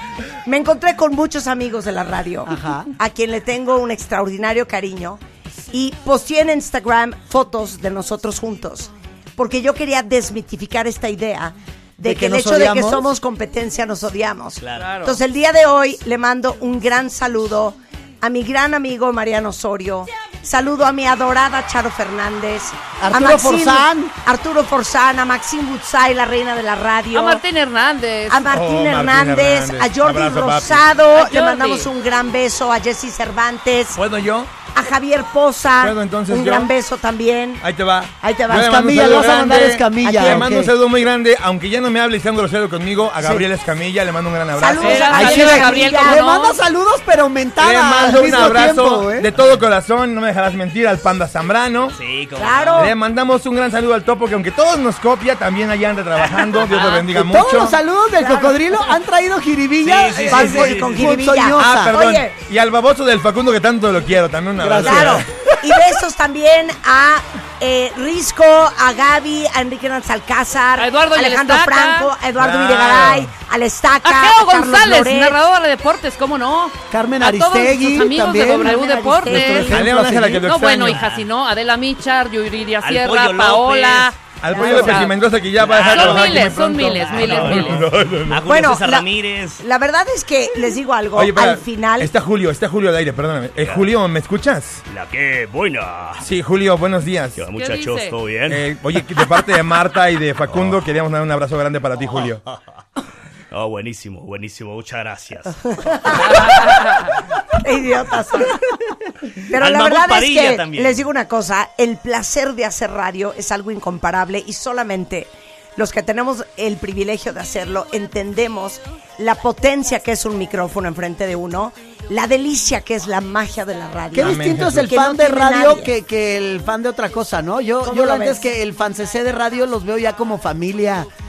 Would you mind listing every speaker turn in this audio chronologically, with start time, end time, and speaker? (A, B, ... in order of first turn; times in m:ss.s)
0:00.4-0:27.4 A
0:02.5-0:02.9 B
0:12.0-0:13.1 B
0:14.8-0:15.2 C
0:23.0-0:24.1 B
0:27.1-0:28.4 C
0:28.3-0:34.0 A
0:28.5-0:30.9 D
0:31.2-0:31.9 C
0:34.0-0:34.5 D
0:34.7-0:37.6 A
0:35.8-0:36.7 D
0:37.6-0:45.1 D
0:38.2-0:39.2 A
0:38.5-0:40.7 B
0:40.1-0:40.5 A
0:44.6-0:46.2 A
0:44.8-0:46.6 C
0:45.1-0:49.3 B
0:47.6-0:52.0 D
0:51.9-0:52.9 E
0:52.4-0:53.0 A
0:52.8-0:57.8 D
0:56.2-0:56.7 E
0:56.7-0:57.1 C
0:57.1-1:02.0 B
0:58.2-0:58.6 A
0:59.8-1:01.1 E
1:00.3-1:02.4 A
1:01.6-1:05.3 D
1:04.6-1:05.3 B
1:04.8-1:15.4 A
1:10.8-1:12.1 C
1:12.4-1:13.3 D
1:14.0-1:19.8 C
1:16.9-1:20.5 B
1:18.6-1:19.9 A
1:19.7-1:21.0 D
1:20.4-1:25.2 C
1:21.0-1:21.2 E
1:22.8-1:24.1 E
1:24.4-1:28.4 D
1:24.5-1:24.9 A
1:25.6-1:29.6 E
1:25.8-1:27.8 C
1:28.4-1:32.1 A
1:31.2-1:34.8 D
1:33.6-1:33.9 E
1:34.9-1:36.2 E
1:36.2-1:37.4 D
1:37.4-1:38.6 E
1:37.6-1:38.2 C
1:38.5-1:42.4 D
1:40.5-1:40.8 E
1:43.5-1:46.4 E
1:45.8-1:46.8 A
1:46.2-1:47.1 C
1:47.6-1:48.6 A
1:49.5-2:05.9 A
1:49.6-1:51.0 E
2:04.1-2:11.1 B
2:04.2-2:04.9 D
2:07.8-2:08.4 A